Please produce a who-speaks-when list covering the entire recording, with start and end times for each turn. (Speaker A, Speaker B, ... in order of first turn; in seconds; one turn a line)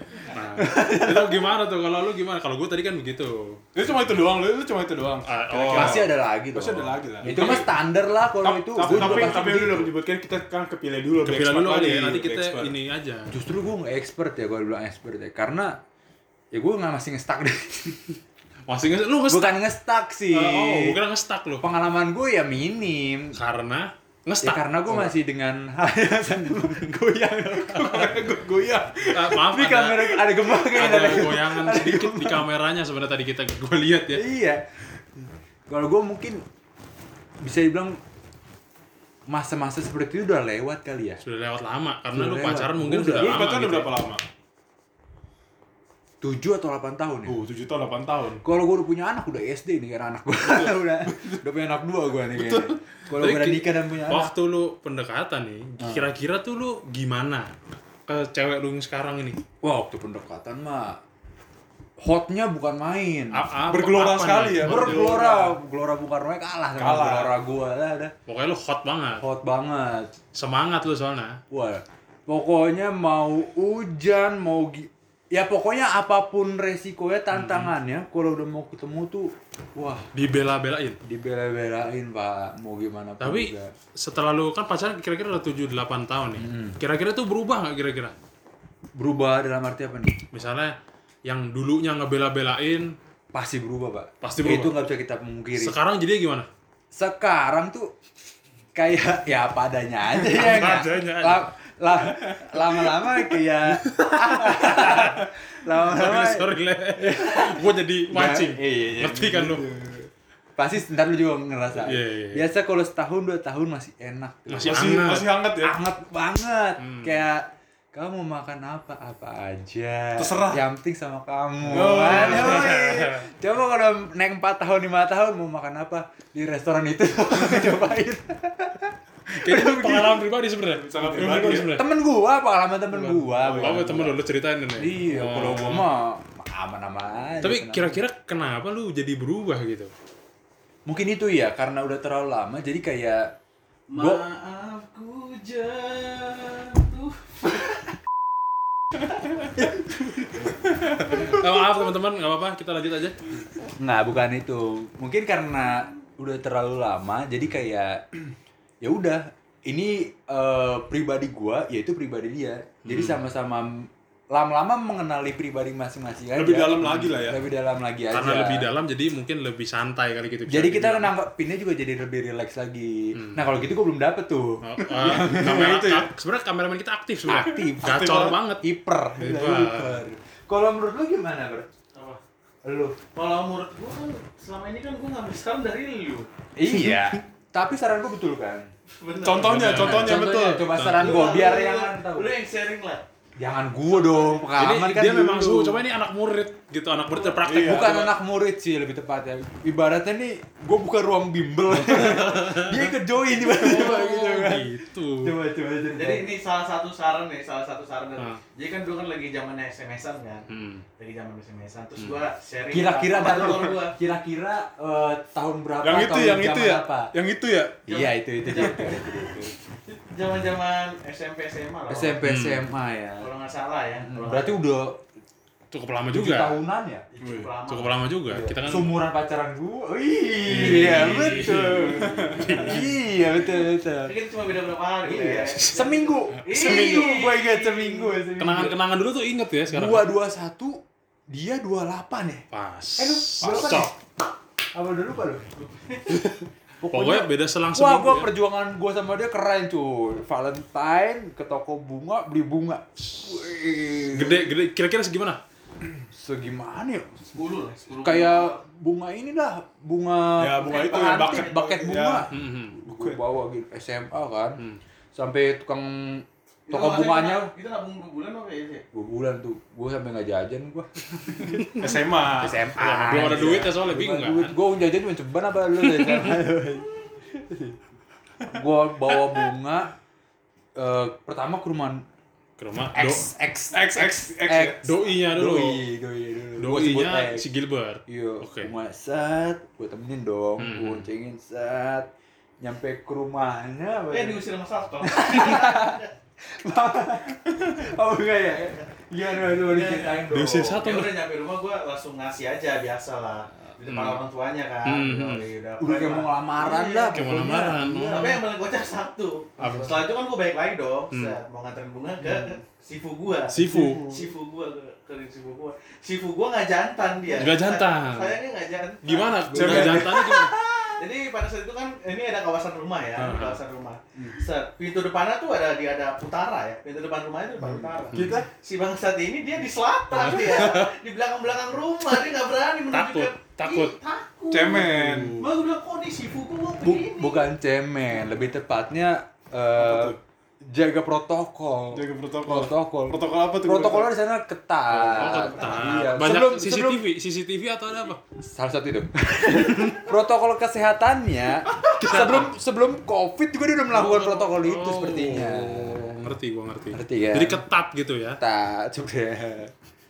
Speaker A: 0.3-3.6
Speaker B: 0.6-1.5
Speaker C: 3.7-7.7
Speaker A: 5.2-6.1
Speaker B: 5.7-9.9
Speaker A: 7.2-7.7
Speaker C: 8.4-12.7
Speaker A: 8.8-9.8
Speaker A: 11.2-13.3
Speaker B: 13.3-15.8
Speaker B: 16.5-18.1
Speaker A: 18.7-19.6
Speaker B: 19.3-21.0
Speaker A: 20.3-21.6
Speaker B: 21.6-23.4
Speaker A: 23.3-25.1
Speaker B: 24.4-28.1
Speaker C: 27.6-29.3
Speaker A: 29.1-34.3
Speaker B: 29.4-32.5
Speaker B: 34.1-34.6
Speaker B: 35.1-36.4
Speaker B: 37.4-38.0
Speaker B: 39.3-41.2
Speaker A: 41.2-44.0
Speaker B: 42.1-43.5
Speaker C: 43.1-44.2
Speaker B: 46.2-47.4
Speaker C: 47.2-48.4
Speaker B: 48.4-54.3
Speaker C: 50.4-51.4
Speaker C: 52.3-52.8
Speaker A: 53.2-57.5
Speaker A: 58.1-59.4
Speaker B: 59.6-61.0
Speaker B: 62.0-63.5
Speaker A: 63.3-65.2
Speaker C: 63.7-65.6
Speaker B: 64.6-68.1
Speaker C: 66.8-67.4
Speaker A: 68.3-69.2
Speaker B: 69.2-70.1
Speaker A: 70.3-71.4
Speaker B: 71.5-80.0
Speaker A: 77.3-77.7
Speaker A: 80.1-81.0
Speaker B: 81.0-83.7
Speaker A: 83.2-88.2
Speaker B: 86.4-86.8
Speaker B: 88.9-90.2
Speaker A: 90.3-93.0
Speaker B: 93.3-95.8
Speaker A: 94.2-94.8
Speaker A: 95.5-96.5
Speaker B: 96.9-97.9
Speaker B: 98.7-109.8
Speaker A: 100.2-101.5
Speaker A: 103.7-105.3
Speaker A: 105.8-109.7
Speaker B: 110.5-130.3
Speaker A: 111.7-112.5
Speaker A: 114.5-115.4
Speaker C: 114.6-115.8
Speaker A: 116.8-117.2
Speaker C: 120.2-120.6
Speaker A: 121.6-123.3
Speaker C: 121.7-122.8
Speaker A: 129.3-131.9
Speaker C: 130.7-131.8
Speaker B: 131.7-134.2
Speaker A: 132.9-135.9
Speaker C: 133.2-134.1
Speaker B: 134.8-138.0
Speaker A: 137.4-139.9
Speaker B: 140.8-143.3
Speaker D: 143.9-147.6
Speaker B: 143.9-144.2
Speaker B: 149.6-150.4
Speaker A: 151.2-153.2
Speaker B: 153.8-158.0
Speaker B: 158.8-168.7
Speaker A: 162.8-163.3
Speaker C: 166.3-167.4
Speaker A: 166.8-167.2
Speaker A: 168.1-171.1
Speaker B: 170.5-175.8
Speaker A: 173.1-173.6
Speaker A: 174.6-180.0
Speaker C: 174.8-176.1
Speaker B: 177.2-181.7
Speaker C: 177.3-178.4
Speaker D: 181.9-182.2
Speaker B: 182.6-183.0
Speaker D: 183.1-186.3
Speaker B: 186.6-188.7
Speaker D: 188.9-189.8
Speaker C: 189.2-190.7
Speaker A: 189.4-191.3
Speaker B: 189.7-192.3
Speaker D: 190.9-193.0
Speaker B: 193.3-195.8
Speaker D: 193.9-194.5
Speaker A: 194.6-198.1
Speaker C: 197.3-198.1
Speaker B: 197.5-206.3
Speaker A: 201.7-205.3
Speaker D: 205.9-210.4
Speaker A: 208.2-208.4
Speaker A: 210.5-210.8
Speaker D: 211.0-214.0
Speaker A: 212.0-212.2
Speaker B: 212.7-217.1
Speaker C: 215.8-217.9
Speaker B: 217.9-219.5
Speaker D: 217.9-219.2
Speaker D: 219.8-222.2
Speaker B: 221.9-223.3
Speaker A: 222.2-222.7
Speaker D: 223.2-224.6
Speaker B: 224.1-225.0
Speaker A: 225.7-226.6
Speaker B: 226.1-227.1
Speaker D: 227.1-228.0
Speaker C: 227.2-227.5
Speaker A: 227.7-229.0
Speaker B: 228.3-234.1
Speaker A: 230.4-233.0
Speaker C: 230.5-232.8
Speaker D: 234.0-238.2
Speaker B: 235.0-238.8
Speaker A: 235.5-237.3
Speaker A: 238.3-240.1
Speaker B: 239.7-242.4
Speaker A: 242.5-243.9
Speaker B: 243.0-243.9
Speaker C: 243.4-243.9
Speaker B: 244.7-245.5
Speaker D: 245.5-246.2
Speaker B: 246.8-254.5
Speaker A: 246.9-248.3
Speaker A: 254.1-255.4
Speaker B: 256.1-257.2
Speaker D: 257.3-258.6
Speaker B: 258.0-264.6
Speaker C: 260.4-262.3
Speaker D: 260.6-261.6
Speaker A: 262.3-262.8
Speaker C: 262.8-263.2
Speaker B: 265.1-267.5
Speaker D: 266.7-268.8
Speaker B: 268.9-271.7
Speaker C: 271.8-273.6
Speaker B: 272.4-277.8
Speaker A: 272.7-274.5
Speaker A: 275.9-276.3
Speaker B: 278.4-279.9
Speaker B: 280.7-282.1
Speaker A: 282.6-283.3
Speaker B: 282.9-287.5
Speaker C: 283.7-284.8
Speaker A: 284.8-285.8
Speaker A: 286.6-288.7
Speaker B: 288.1-294.4
Speaker A: 290.6-291.1
Speaker D: 294.1-296.1
Speaker B: 295.0-300.8
Speaker D: 299.4-307.3
Speaker A: 300.3-301.2
Speaker A: 303.8-304.2
Speaker A: 304.8-305.4
Speaker B: 305.8-308.4
Speaker A: 307.1-308.4
Speaker D: 308.1-319.8
Speaker B: 309.6-309.9
Speaker A: 309.6-310.0
Speaker A: 311.1-311.4
Speaker B: 312.2-312.6
Speaker A: 313.5-314.1
Speaker B: 313.6-314.3
Speaker A: 317.3-318.4
Speaker A: 319.0-320.6
Speaker B: 319.5-321.0
Speaker C: 319.5-320.3
Speaker D: 320.9-337.5
Speaker A: 323.1-323.6
Speaker C: 324.1-324.4
Speaker B: 327.6-328.5
Speaker A: 328.1-328.4
Speaker A: 330.1-330.9
Speaker A: 332.9-333.9
Speaker C: 334.5-335.3
Speaker A: 334.8-335.5
Speaker B: 336.8-347.0
Speaker C: 339.7-340.2
Speaker C: 341.9-344.1
Speaker A: 344.9-348.2
Speaker D: 345.4-346.0
Speaker B: 348.4-356.3
Speaker A: 349.6-350.0
Speaker A: 351.9-352.5
Speaker A: 353.9-358.4
Speaker B: 356.9-357.6
Speaker B: 358.4-359.7